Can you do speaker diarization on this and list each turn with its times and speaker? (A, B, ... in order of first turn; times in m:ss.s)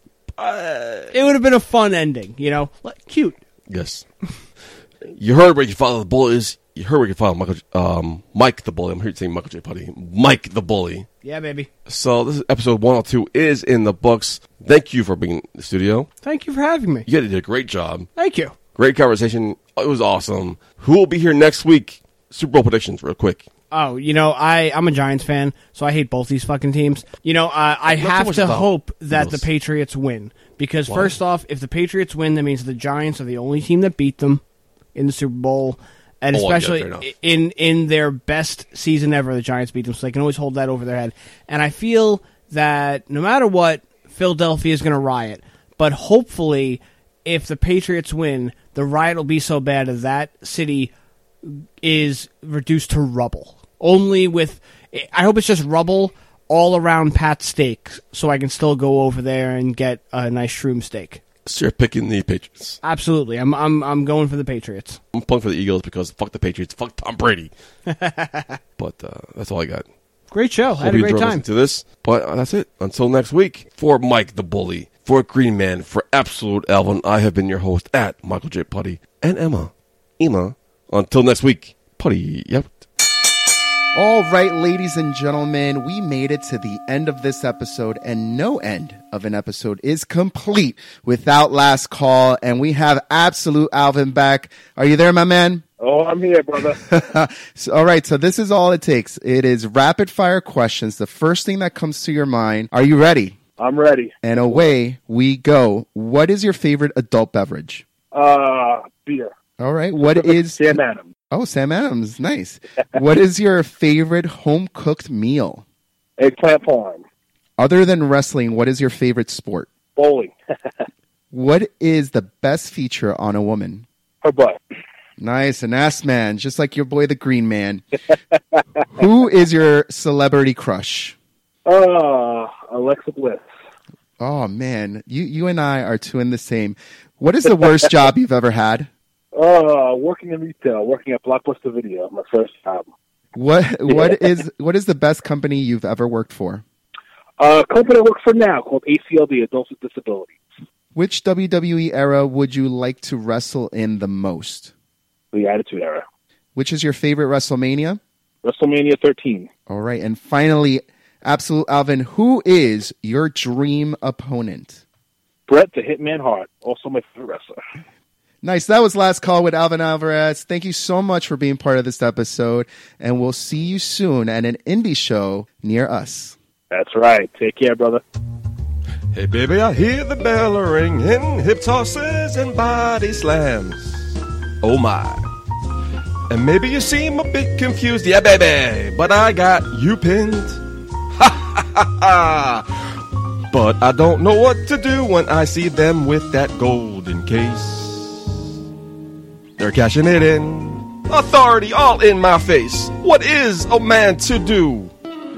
0:00.3-0:01.1 A
0:01.1-0:03.4 B
0:03.7-0:04.0 A
0:05.0-0:11.1 A
0:11.2-0:11.7 B
0:11.8-0:16.1 A
0:16.2-0:17.1 B
0:17.0-0:18.1 A
0:18.2-0:18.5 B
0:18.7-0:23.4 A
0:23.7-0:34.4 B
0:27.9-0:29.4 A
0:30.9-0:31.2 A
0:34.9-0:50.9 B
0:36.3-0:37.1 A
0:51.4-1:01.2 B
1:01.4-1:02.8 A
1:02.8-1:05.0 B
1:05.1-1:07.5 A
1:07.9-1:08.6 B
1:08.8-1:09.8 A
1:10.3-1:11.4 B
1:10.7-1:22.8 A
1:23.9-1:35.6 C
1:35.8-1:36.8 D
1:36.8-1:43.4 C
1:43.6-1:44.6 D
1:44.2-1:47.8 C
1:48.1-1:49.3 D
1:49.6-1:50.8 C
1:50.0-1:51.1 D
1:51.3-1:55.6 C
1:56.2-1:57.0 D
1:57.6-1:59.7 C
2:00.0-2:00.3 D
2:01.3-2:03.8 C
2:04.2-2:04.6 D
2:05.2-2:07.8 C
2:09.0-2:11.2 C
2:11.6-2:13.4 D
2:14.2-2:18.9 C
2:19.3-2:22.8 D
2:23.3-2:26.6 C
2:23.9-2:24.2 D
2:27.4-2:30.4 D
2:30.9-2:34.7 C
2:35.3-2:36.0 D
2:36.5-2:38.0 C
2:38.4-2:39.5 D
2:39.7-2:44.8 C
2:45.5-2:47.6 D
2:48.4-2:56.4 C
2:56.7-2:58.0 D
2:59.1-3:05.2 A
3:06.3-3:10.6 A
3:11.2-3:12.7 A
3:13.5-3:18.4 A
3:19.6-3:24.9 A